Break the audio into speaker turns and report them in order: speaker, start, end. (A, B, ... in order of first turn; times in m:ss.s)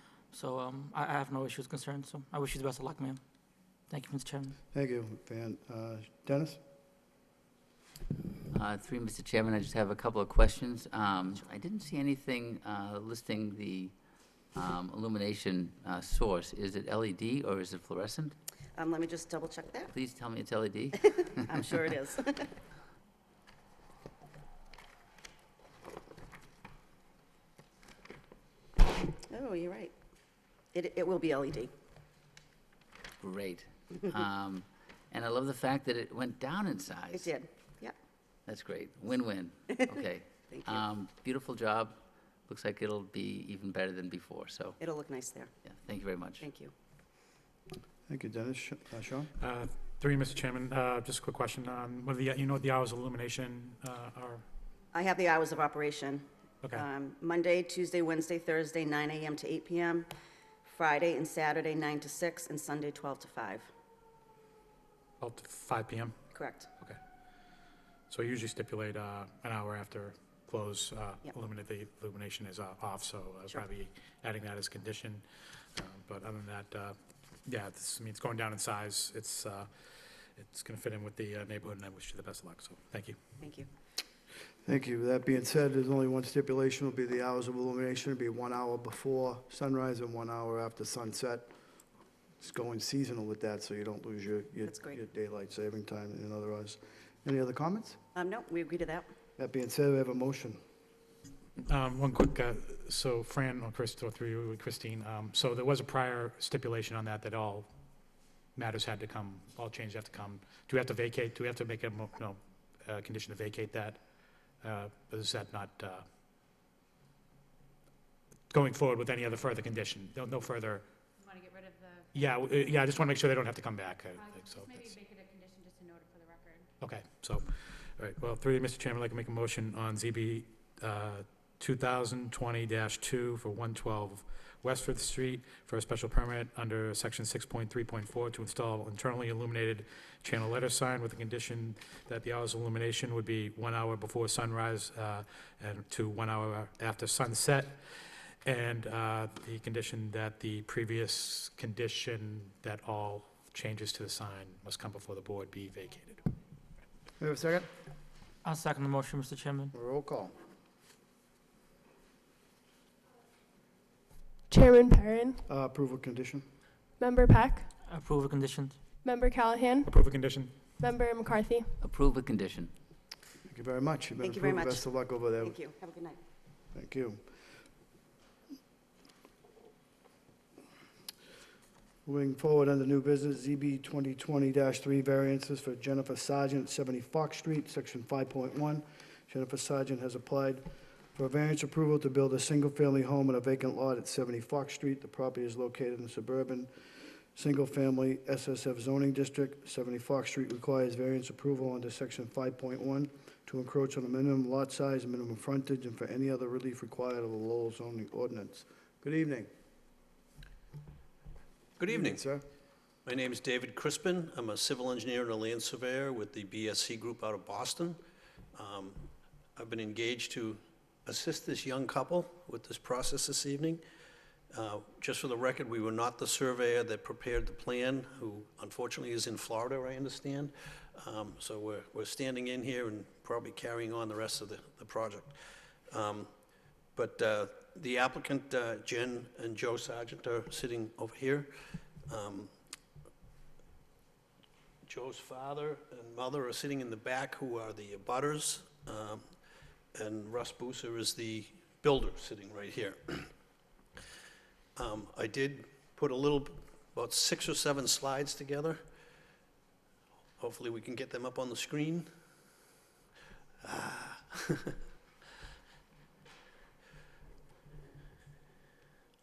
0:00.3-0:03.2 A
0:03.9-0:04.6 A
0:04.7-0:06.6 B
0:08.5-0:13.9 C
0:14.5-0:18.3 C
0:18.7-0:19.9 D
0:19.9-0:21.7 C
0:21.2-0:22.5 D
0:29.3-0:29.9 D
0:30.7-0:31.7 D
0:33.2-0:37.3 C
0:37.1-0:37.9 D
0:38.4-0:44.8 C
0:40.5-0:40.8 D
0:44.8-0:45.5 D
0:45.6-0:46.4 C
0:46.4-0:46.7 D
0:48.1-0:49.3 B
0:49.4-0:54.4 E
0:54.9-1:00.1 D
1:00.6-1:03.7 D
1:05.2-1:06.1 E
1:06.3-1:06.7 D
1:08.1-1:15.2 E
1:15.7-1:16.9 E
1:17.4-1:19.7 E
1:20.4-1:23.2 E
1:23.4-1:23.7 D
1:24.6-1:31.5 B
1:32.4-1:38.0 B
1:34.6-1:35.0 D
1:38.1-1:39.1 D
1:39.4-1:40.6 B
1:41.6-1:47.7 E
1:48.5-1:54.0 E
1:54.6-1:56.0 E
1:58.5-2:00.8 E
2:01.2-2:03.0 F
2:02.1-2:05.0 E
2:04.2-2:06.6 F
2:06.8-2:27.8 E
2:28.4-2:36.3 E
2:37.2-2:37.7 B
2:38.4-2:39.7 A
2:39.7-2:40.3 B
2:44.5-2:45.4 G
2:45.5-2:46.5 B
2:47.0-2:47.7 G
2:47.8-2:48.8 A
2:49.0-2:49.9 G
2:49.8-2:50.5 E
2:50.8-2:51.7 G
2:51.8-2:52.7 C
2:53.4-2:55.6 B
2:54.2-2:56.2 D
2:56.7-2:57.3 B
3:02.0-3:16.7 B
3:17.3-3:29.5 B
3:31.8-3:32.2 H
3:31.9-3:32.4 B
3:33.0-3:38.0 H
3:38.5-3:43.8 H
3:44.5-3:55.4 H
3:55.9-3:56.3 H
3:57.0-4:01.5 H
4:02.1-4:02.5 H
4:04.8-4:09.2 H
4:09.9-4:13.3 H
4:14.8-4:18.8 H
4:20.4-4:22.1 H
4:23.6-4:24.7 H